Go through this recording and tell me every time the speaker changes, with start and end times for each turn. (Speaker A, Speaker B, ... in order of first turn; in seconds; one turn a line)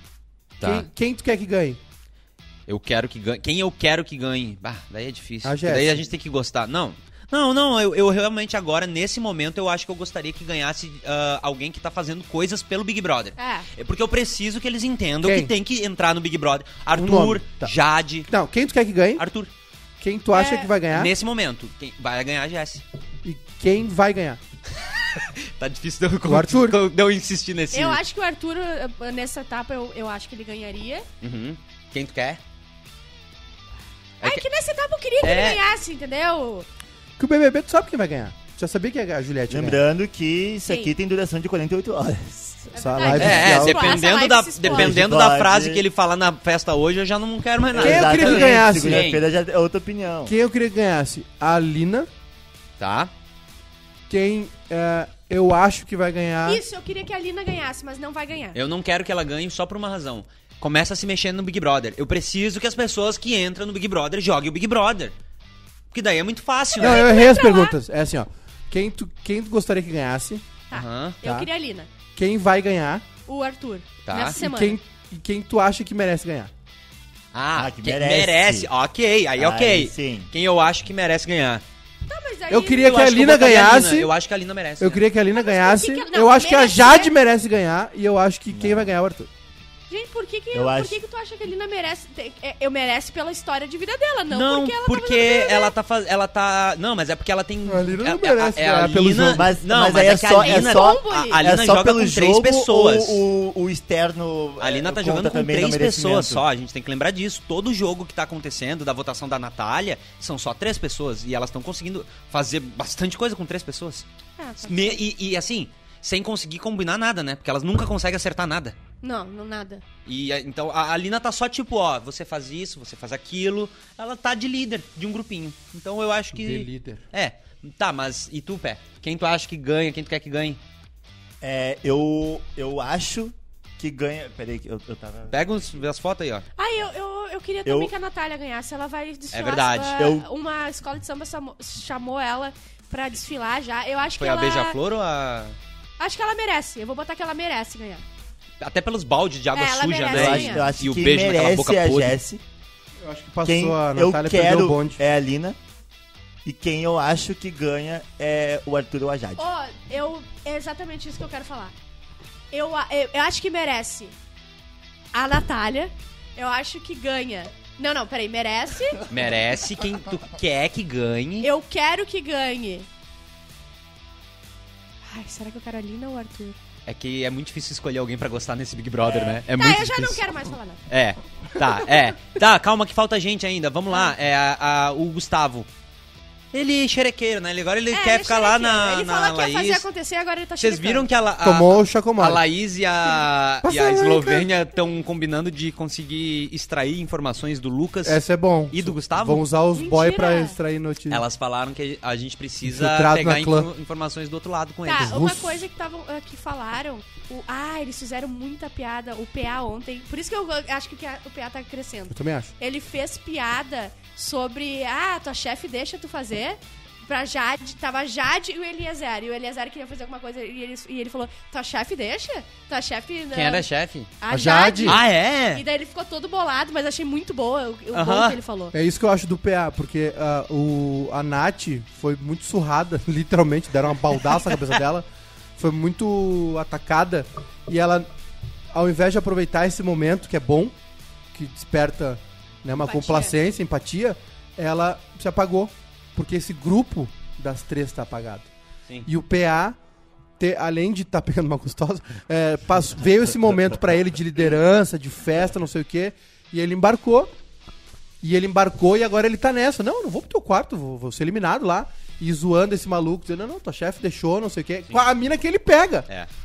Speaker A: 0.6-0.9
Speaker B: 0.6-1.8
Speaker A: 2.7-18.3
Speaker B: 5.4-6.1
Speaker C: 13.4-13.7
Speaker B: 15.2-15.5
Speaker B: 16.9-17.7
Speaker B: 18.3-19.2
Speaker A: 19.2-19.5
Speaker B: 20.0-21.1
Speaker C: 20.3-20.7
Speaker A: 20.9-22.8
Speaker B: 23.2-24.4
Speaker A: 24.8-28.0
Speaker B: 26.3-26.8
Speaker C: 27.7-31.1
Speaker A: 31.2-32.4
Speaker C: 34.2-36.7
Speaker A: 35.2-35.6
Speaker B: 37.2-39.8
Speaker D: 39.5-42.7
Speaker C: 40.7-40.9
Speaker C: 42.7-45.0
Speaker B: 42.8-44.0
Speaker A: 43.2-49.2
Speaker D: 44.6-45.8
Speaker D: 47.7-50.3
Speaker B: 47.8-49.1
Speaker B: 50.3-52.1
Speaker A: 52.8-53.1
Speaker B: 54.1-56.6
Speaker C: 56.5-58.6
Speaker A: 58.5-65.1
Speaker A: 65.9-67.0
Speaker B: 66.8-70.6
Speaker C: 66.8-67.8
Speaker C: 70.7-71.9
Speaker A: 70.7-71.2
Speaker B: 71.2-71.5
Speaker B: 72.2-73.0
Speaker C: 73.3-74.8
Speaker A: 74.1-74.4
Speaker B: 74.3-76.5
Speaker A: 77.3-81.6
Speaker D: 77.5-78.7
Speaker D: 79.4-80.3
Speaker C: 82.1-83.0
Speaker B: 82.5-84.1
Speaker A: 82.8-85.0
Speaker B: 84.8-89.3
Speaker C: 85.3-87.1
Speaker D: 88.5-88.9
Speaker C: 89.9-95.7
Speaker D: 90.5-91.0
Speaker A: 94.3-103.2
Speaker B: 97.7-99.5
Speaker D: 99.3-106.4
Speaker C: 100.4-101.5
Speaker A: 104.6-114.1
Speaker C: 114.4-115.0
Speaker A: 114.6-118.8
Speaker C: 119.0-119.8
Speaker A: 120.1-130.6
Speaker B: 126.3-127.0
Speaker D: 131.4-135.3
Speaker A: 135.3-136.5
Speaker C: 136.6-144.8
Speaker D: 137.7-137.9
Speaker A: 139.3-140.1
Speaker D: 140.0-140.2
Speaker A: 144.2-145.6
Speaker C: 146.0-148.0
Speaker A: 148.6-152.2
Speaker C: 149.5-150.7
Speaker D: 150.1-152.4
Speaker B: 153.0-155.0
Speaker D: 153.4-155.6
Speaker D: 156.4-159.4
Speaker C: 159.4-161.7
Speaker C: 162.5-164.1
Speaker C: 165.1-169.0
Speaker A: 169.1-171.5
Speaker C: 171.4-172.9
Speaker C: 175.1-176.6
Speaker A: 176.9-180.2
Speaker C: 179.5-180.8
Speaker A: 180.9-185.7
Speaker A: 186.5-189.9
Speaker C: 187.9-191.1
Speaker A: 190.6-199.4
Speaker B: 191.4-192.4
Speaker B: 193.6-194.5
Speaker B: 198.1-201.2
Speaker C: 199.8-200.6
Speaker A: 201.1-205.2
Speaker B: 202.7-203.7
Speaker C: 204.9-223.7
Speaker B: 205.0-205.6
Speaker B: 212.1-212.5
Speaker A: 223.3-224.1
Speaker C: 224.2-228.8
Speaker B: 224.3-225.0
Speaker A: 224.8-225.6
Speaker A: 227.9-228.4
Speaker B: 228.7-238.1
Speaker B: 238.7-240.7
Speaker B: 241.3-248.5
Speaker C: 242.8-243.4
Speaker B: 249.1-249.8
Speaker B: 250.4-257.3
Speaker B: 258.2-266.1